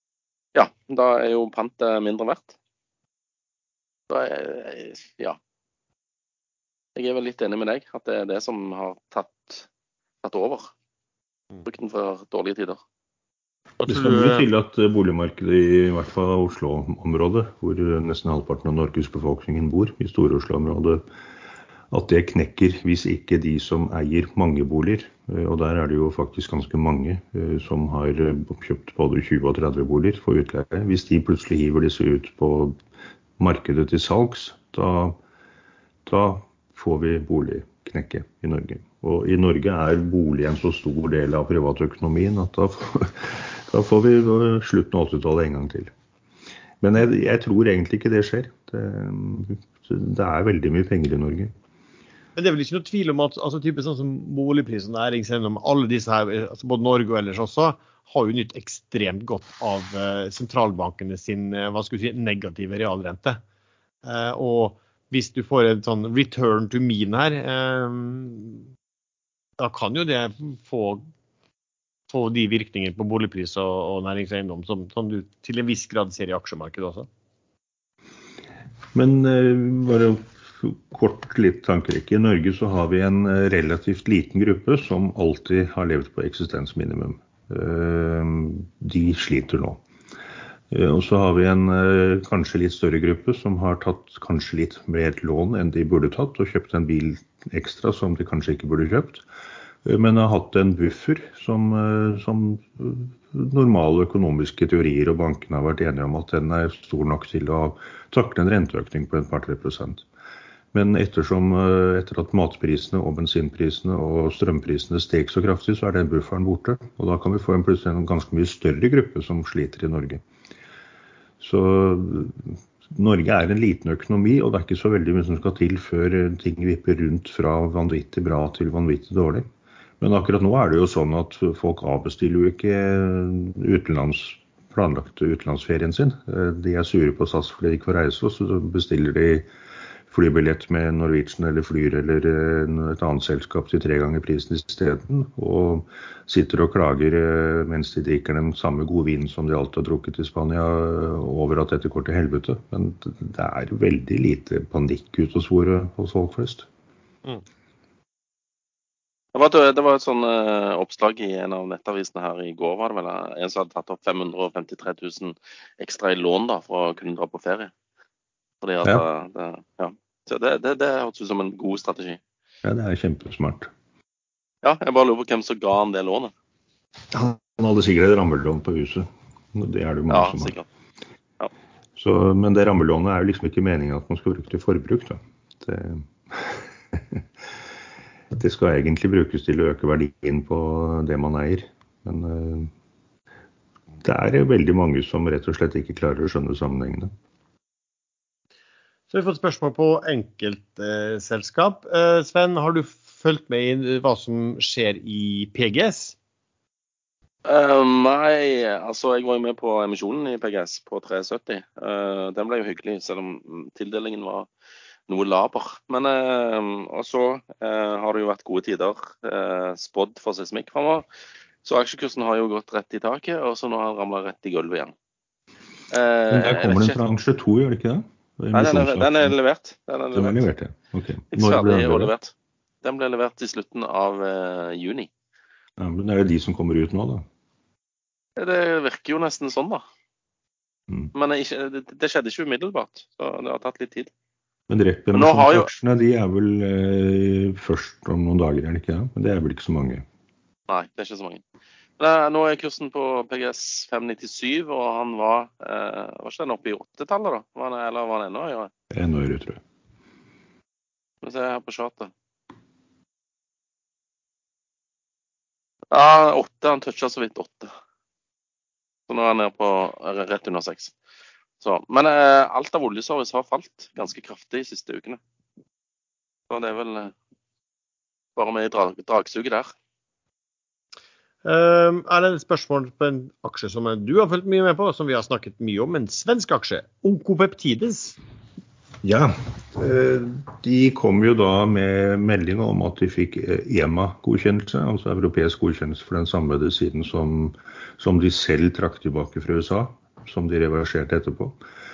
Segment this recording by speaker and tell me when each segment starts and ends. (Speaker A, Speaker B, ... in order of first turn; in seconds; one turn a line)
Speaker A: 0.5-2.5
Speaker A: 4.1-5.4
Speaker A: 7.0-9.7
Speaker A: 10.2-10.7
Speaker A: 11.6-12.8
Speaker B: 13.8-14.4
Speaker C: 13.8-21.0
Speaker C: 21.9-32.8
Speaker C: 33.4-35.2
Speaker C: 36.0-45.9
Speaker C: 46.8-51.5
Speaker B: 52.4-63.4
Speaker B: 64.0-68.6
Speaker B: 69.6-71.0
Speaker B: 72.1-77.1
Speaker C: 78.9-89.8
Speaker C: 90.7-99.2
Speaker C: 99.8-110.0
Speaker C: 110.7-120.2
Speaker C: 121.4-129.4
Speaker C: 130.0-139.5
Speaker C: 140.1-156.7
Speaker A: 159.3-167.7
Speaker A: 168.6-172.2
Speaker C: 172.6-173.7
Speaker A: 174.6-176.3
Speaker C: 177.1-180.5
Speaker A: 180.1-180.7
Speaker C: 181.9-187.2
Speaker C: 188.3-192.7
Speaker C: 194.0-197.1
Speaker B: 199.1-206.2
Speaker A: 207.4-214.5
Speaker A: 215.1-221.1
Speaker A: 221.6-224.9
Speaker A: 225.9-227.0
Speaker C: 226.3-229.3
Speaker A: 228.5-230.4
Speaker C: 230.1-232.1
Speaker A: 231.3-232.3
Speaker A: 232.8-235.1
Speaker C: 235.8-237.2
Speaker A: 238.4-239.8
Speaker A: 241.1-244.1
Speaker C: 244.7-250.0
Speaker A: 245.1-245.7
Speaker A: 250.7-251.4
Speaker A: 252.0-258.7
Speaker C: 258.9-259.6
Speaker A: 261.2-262.1
Speaker A: 265.9-267.7
Speaker A: 269.1-270.9
Speaker A: 271.6-275.2
Speaker A: 276.5-277.1
Speaker A: 278.4-279.7
Speaker B: 281.4-288.2
Speaker C: 289.0-301.6